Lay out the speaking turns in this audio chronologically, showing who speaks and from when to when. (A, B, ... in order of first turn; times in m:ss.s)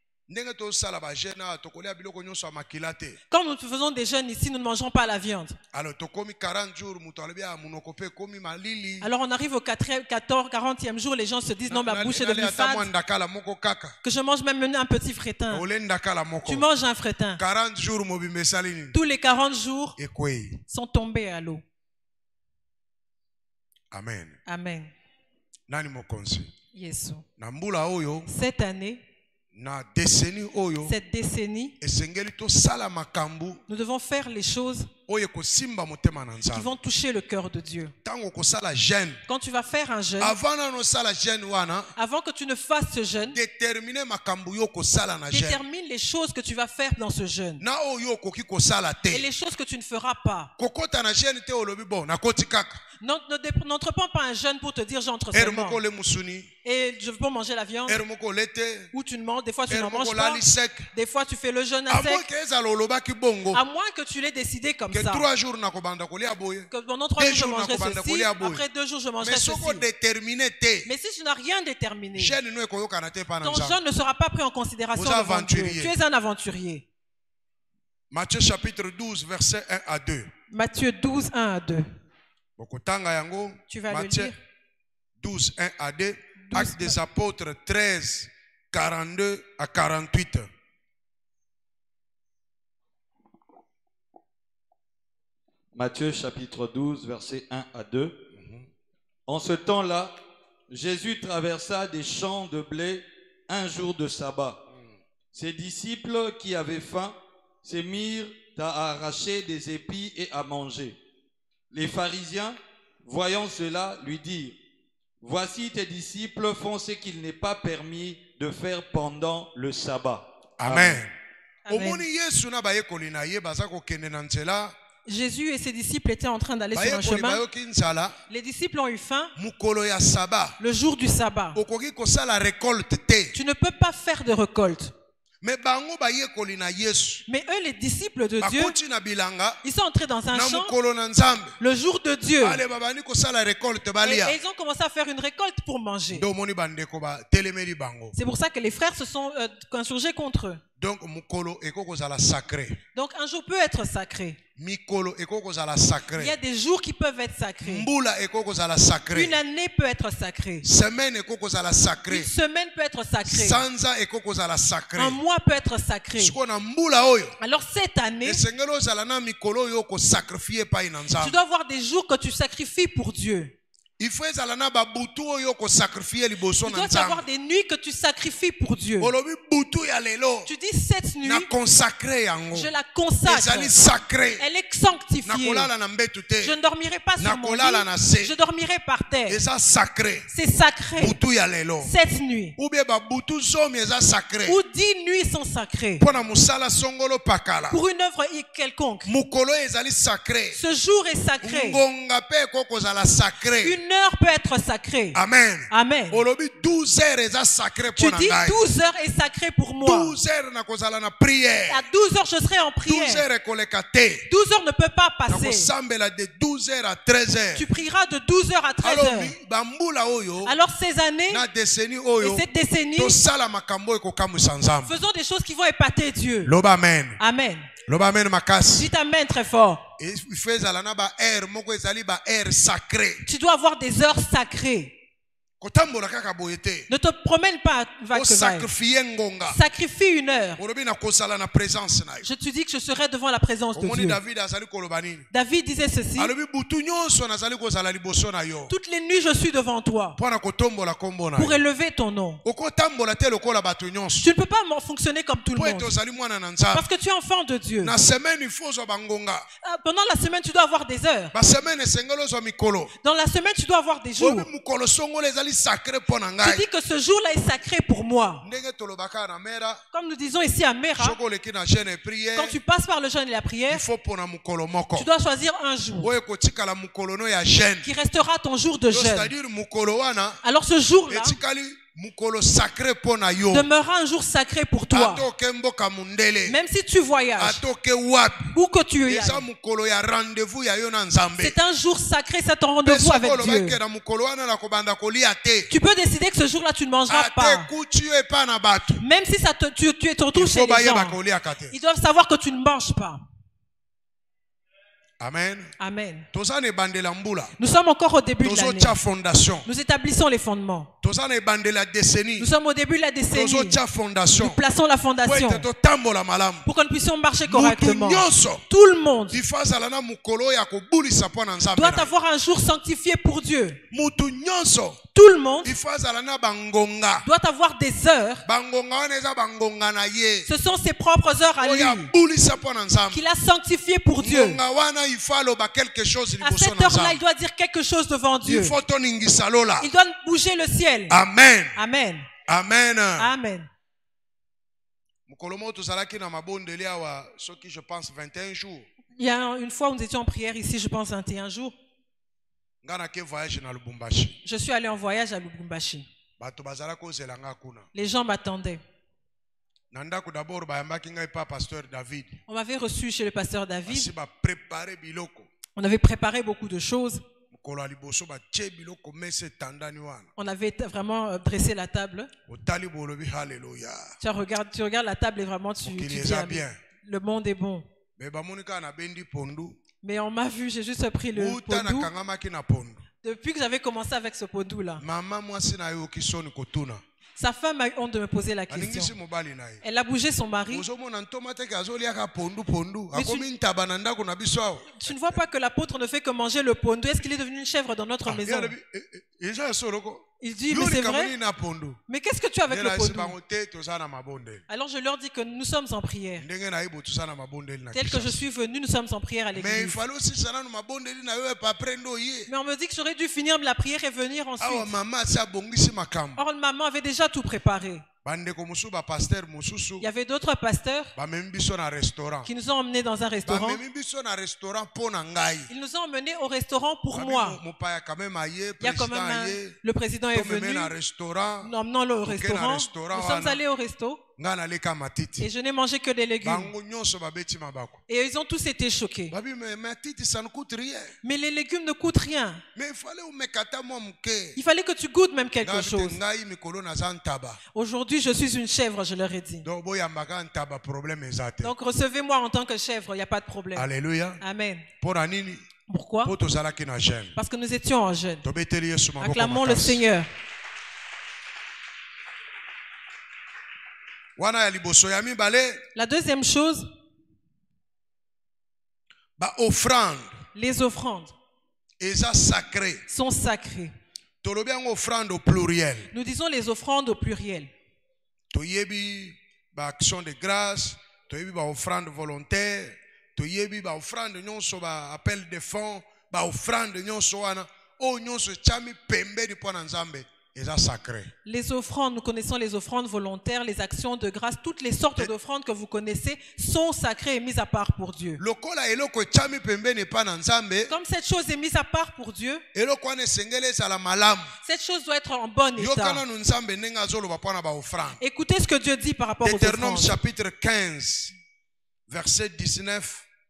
0:00.3-0:03.2 A
0:03.3-0:05.6 B
0:05.7-0:09.1 A
0:09.0-0:12.9 B
0:11.7-0:14.0 A
0:14.0-0:15.6 B
0:15.5-0:16.6 A
0:16.4-0:17.4 B
0:17.4-0:19.0 A
0:18.9-0:20.0 B
0:20.0-0:20.6 A
0:20.7-0:21.6 B
0:23.9-0:24.4 A
0:24.4-0:24.9 B
0:25.7-0:26.5 A
0:26.7-0:27.2 B
0:27.4-0:28.3 A
0:28.3-0:29.0 B
0:29.5-0:30.9 A
0:30.8-0:31.7 B
0:31.8-0:33.6 A
0:33.7-0:34.9 B
0:35.1-0:36.7 A
0:36.5-0:37.9 B
0:38.0-0:39.2 A
0:39.3-0:40.3 B
0:40.2-0:41.9 A
0:42.0-0:43.4 B
0:43.3-0:45.6 A
0:45.3-0:47.6 B
0:47.6-0:49.3 A
0:49.1-0:50.5 B
0:50.6-0:52.8 A
0:53.0-0:55.8 B
0:55.3-0:56.5 A
0:56.6-0:58.0 B
0:57.9-0:58.9 A
0:58.9-1:02.2 B
0:59.7-1:00.9 A
1:01.9-1:03.6 A
1:03.5-1:05.2 B
1:04.9-1:08.6 A
1:06.7-1:09.8 B
1:09.2-1:10.9 A
1:10.8-1:12.4 B
1:12.2-1:13.8 A
1:13.4-1:16.8 B
1:14.9-1:15.9 A
1:18.1-1:20.3 A
1:20.5-1:21.9 B
1:22.6-1:24.3 A
1:23.7-1:24.4 B
1:25.2-1:30.5 A
1:26.4-1:27.0 B
1:35.7-1:38.2 C
1:38.3-1:38.7 A
1:39.3-1:40.2 C
1:40.7-1:44.6 C
1:45.3-1:51.0 C
1:51.7-1:54.6 C
1:55.2-2:01.0 C
2:00.6-2:01.1 A
2:01.7-2:02.0 B
2:01.7-2:04.7 A
2:05.0-2:07.4 B
2:06.7-2:08.2 A
2:08.3-2:09.3 B
2:09.4-2:10.6 A
2:10.6-2:11.6 B
2:11.5-2:13.3 A
2:13.3-2:14.9 B
2:15.4-2:17.2 A
2:17.3-2:18.7 B
2:18.4-2:19.6 A
2:19.6-2:20.7 B
2:20.3-2:21.5 A
2:21.6-2:22.6 B
2:22.4-2:24.4 A
2:24.0-2:26.2 B
2:26.1-2:28.1 A
2:28.1-2:30.6 B
2:30.8-2:32.8 A
2:32.9-2:34.4 B
2:34.6-2:36.4 A
2:36.1-2:37.9 B
2:37.6-2:39.4 A
2:39.1-2:40.6 B
2:40.6-2:42.3 A
2:42.1-2:43.6 B
2:43.2-2:45.2 A
2:45.0-2:46.4 B
2:46.2-2:47.3 A
2:47.4-2:48.4 B
2:48.2-2:51.4 A
2:51.2-2:53.5 B
2:54.0-2:57.2 A
2:56.6-2:59.1 B
2:59.0-3:00.5 A
3:00.4-3:01.5 B
3:01.2-3:02.7 A
3:02.5-3:03.7 B
3:03.2-3:04.4 A
3:04.4-3:05.7 B
3:05.2-3:06.6 A
3:06.4-3:09.4 B
3:07.2-3:08.3 A
3:09.3-3:10.3 A
3:10.3-3:11.2 B
3:11.0-3:11.9 A
3:11.8-3:12.5 B
3:12.6-3:14.6 A
3:14.4-3:16.0 B
3:16.0-3:17.8 A
3:17.7-3:19.1 B
3:19.0-3:20.6 A
3:20.5-3:21.8 B
3:21.4-3:23.8 A
3:23.6-3:25.2 B
3:25.1-3:28.6 A
3:25.7-3:26.2 B
3:27.9-3:30.2 B
3:29.8-3:31.8 A
3:31.7-3:33.2 B
3:32.8-3:34.2 A
3:34.3-3:35.7 B
3:35.3-3:37.7 A
3:37.5-3:39.3 B
3:38.8-3:40.5 A
3:40.4-3:41.4 B
3:41.3-3:42.4 A
3:42.2-3:43.2 B
3:43.0-3:44.9 A
3:44.8-3:46.5 B
3:46.4-3:47.2 A
3:47.2-3:47.7 B
3:47.8-3:48.9 A
3:48.8-3:49.8 B
3:50.0-3:53.2 A
3:53.2-3:54.9 B
3:55.6-3:56.9 A
3:56.9-3:58.7 B
3:58.1-3:59.6 A
3:59.5-4:00.6 B
4:00.6-4:02.3 A
4:02.2-4:04.2 B
4:03.7-4:05.3 A
4:05.3-4:06.3 B
4:06.2-4:08.7 A
4:08.7-4:10.2 B
4:10.2-4:11.6 A
4:11.4-4:12.4 B
4:12.4-4:14.2 A
4:14.2-4:15.9 B
4:15.6-4:16.9 A
4:16.7-4:17.9 B
4:17.8-4:19.4 A
4:19.6-4:21.3 B
4:21.3-4:22.9 A
4:23.0-4:24.5 B
4:24.2-4:26.6 A
4:26.4-4:28.4 B
4:28.4-4:29.8 A
4:29.9-4:31.2 B
4:31.0-4:32.6 A
4:32.4-4:33.8 B
4:33.7-4:35.1 A
4:34.9-4:36.1 B
4:36.0-4:37.8 A
4:37.8-4:39.3 B
4:38.9-4:40.4 A
4:40.4-4:41.4 B
4:41.1-4:43.7 A
4:43.5-4:45.2 B
4:44.9-4:46.6 A
4:46.4-4:47.6 B
4:47.4-4:48.5 A
4:48.5-4:49.4 B
4:49.0-4:51.6 A
4:51.4-4:53.8 B
4:52.8-4:55.7 A
4:55.7-4:57.7 B
4:57.1-4:59.0 A
4:59.0-5:01.2 B
5:00.3-5:01.8 A
5:01.7-5:03.2 B
5:05.2-5:05.7 A
5:05.8-5:06.3 B
5:06.3-5:07.5 A
5:07.6-5:08.9 B
5:08.4-5:09.6 A
5:09.6-5:10.9 B
5:11.0-5:12.5 A
5:12.4-5:13.8 B
5:13.3-5:14.6 A
5:14.4-5:15.6 B
5:15.2-5:16.7 A
5:16.6-5:19.4 B
5:17.4-5:18.6 A
5:19.3-5:22.1 A
5:21.7-5:23.8 B
5:23.9-5:25.0 A
5:25.1-5:25.7 B
5:25.6-5:27.2 A
5:27.2-5:28.4 B
5:28.4-5:30.5 A
5:30.4-5:32.1 B
5:31.6-5:33.2 A
5:33.1-5:34.6 B
5:34.2-5:37.2 A
5:36.4-5:38.7 B
5:38.4-5:39.9 A
5:39.8-5:41.2 B
5:41.1-5:41.8 A
5:41.8-5:42.3 B
5:42.5-5:43.3 A
5:43.2-5:43.7 B
5:45.3-5:48.9 A
5:49.2-5:51.7 B
5:52.8-5:54.3 A
5:54.4-5:56.0 B
5:56.4-5:57.9 A
5:57.9-5:58.8 B
5:59.9-6:02.4 A
6:02.5-6:04.1 B
6:03.8-6:05.5 A
6:05.8-6:07.2 B
6:07.5-6:10.3 A
6:10.4-6:12.3 B
6:12.5-6:14.1 A
6:14.2-6:17.8 B
6:15.8-6:16.8 A
6:18.2-6:19.8 A
6:20.0-6:22.1 B
6:21.3-6:23.0 A
6:23.2-6:25.0 B
6:25.0-6:27.0 A
6:27.4-6:29.1 B
6:28.7-6:29.8 A
6:29.8-6:30.8 B
6:30.7-6:35.4 A
6:33.1-6:33.4 B
6:35.0-6:38.7 B
6:38.2-6:42.0 A
6:40.4-6:41.3 B
6:42.1-6:43.3 B
6:42.7-6:44.6 A
6:44.7-6:46.4 B
6:46.4-6:48.4 A
6:47.9-6:50.0 B
6:49.5-6:52.5 A
6:52.5-6:54.9 B
6:54.6-6:56.4 A
6:56.4-6:58.0 B
6:58.2-7:00.0 A
7:00.0-7:01.1 B
7:01.2-7:02.5 A
7:02.4-7:03.8 B
7:03.4-7:05.7 A
7:05.7-7:07.6 B
7:07.1-7:09.8 A
7:08.8-7:10.9 B
7:10.3-7:13.6 A
7:11.6-7:14.2 B
7:14.4-7:15.5 A
7:15.4-7:16.7 B
7:16.4-7:18.0 A
7:18.1-7:19.3 B
7:19.3-7:21.1 A
7:21.2-7:22.6 B
7:22.7-7:24.6 A
7:24.6-7:26.2 B
7:25.6-7:27.6 A
7:27.7-7:29.6 B
7:29.6-7:31.7 A
7:31.6-7:33.9 B
7:33.8-7:34.4 A
7:34.4-7:34.9 B
7:35.0-7:35.6 A
7:35.9-7:36.3 B
7:36.2-7:37.3 A
7:37.4-7:38.4 B
7:38.4-7:40.0 A
7:39.2-7:40.3 B
7:44.4-7:45.8 A
7:45.9-7:46.9 B
7:49.4-7:50.3 A
7:50.5-7:51.3 B
7:52.0-7:53.0 A
7:53.1-7:53.9 B
7:54.4-7:56.1 A
7:56.1-7:57.7 B
7:58.5-8:11.3 A
8:11.4-8:18.4 B
8:18.4-8:20.9 A
8:20.9-8:22.6 B
8:22.7-8:24.5 A
8:24.6-8:26.2 B
8:25.8-8:28.2 A
8:28.2-8:30.2 B
8:29.4-8:31.3 A
8:32.1-8:33.2 A